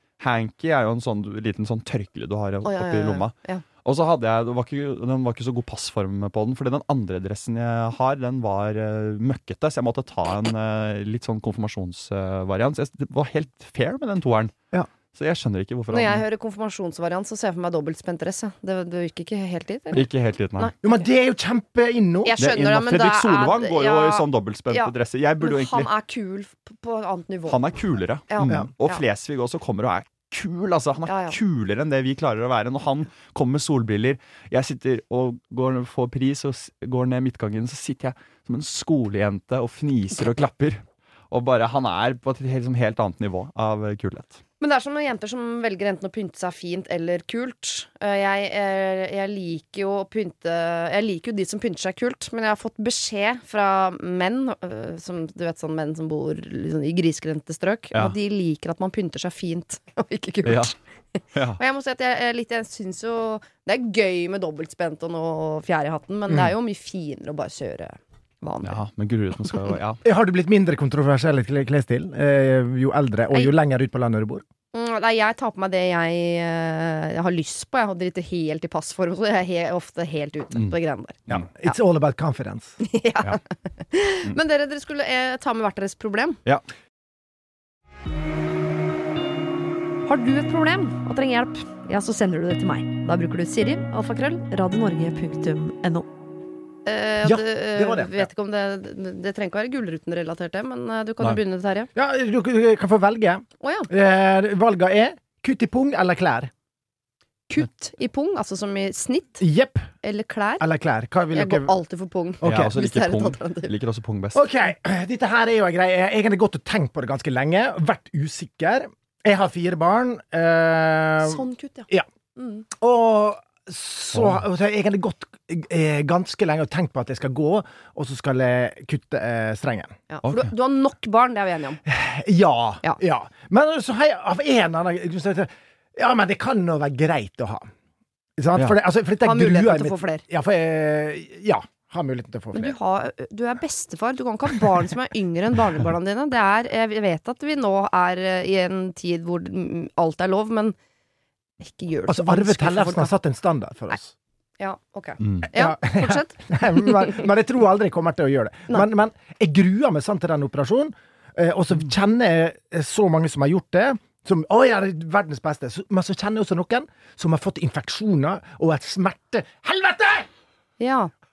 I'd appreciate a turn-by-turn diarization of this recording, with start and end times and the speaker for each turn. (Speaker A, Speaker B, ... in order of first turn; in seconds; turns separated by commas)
Speaker A: 0.2-14.6, Speaker B: 2.6-3.6, Speaker A: 15.1-16.2, Speaker B: 15.9-20.1, Speaker A: 19.9-20.7, Speaker C: 20.8-22.4, Speaker B: 22.2-27.6, Speaker A: 22.4-25.9, Speaker A: 27.5-44.4, Speaker B: 28.3-29.0, Speaker B: 31.1-31.4, Speaker B: 44.6-60.7, Speaker A: 60.5-60.7, Speaker A: 61.3-61.6, Speaker B: 61.6-68.8, Speaker A: 68.6-70.0, Speaker C: 70.0-74.4, Speaker B: 74.7-81.2, Speaker C: 81.3-82.8, Speaker B: 82.8-86.4, Speaker B: 90.0-96.1, Speaker B: 96.9-101.9, Speaker C: 97.2-98.3, Speaker C: 102.0-106.5, Speaker B: 103.6-103.9, Speaker B: 107.5-109.4, Speaker C: 109.4-109.9, Speaker B: 110.0-110.7, Speaker C: 110.6-111.7, Speaker B: 111.3-113.7, Speaker C: 112.4-112.7, Speaker A: 112.4-114.5, Speaker C: 114.3-122.1, Speaker B: 121.2-122.7, Speaker C: 122.7-129.9, Speaker B: 130.1-131.8, Speaker C: 131.9-137.7, Speaker C: 138.4-142.8, Speaker B: 139.2-140.2, Speaker B: 142.5-150.8, Speaker B: 151.6-153.1, Speaker C: 152.1-154.1, Speaker B: 154.6-157.2, Speaker A: 155.2-155.5, Speaker C: 155.5-170.3, Speaker B: 170.8-171.1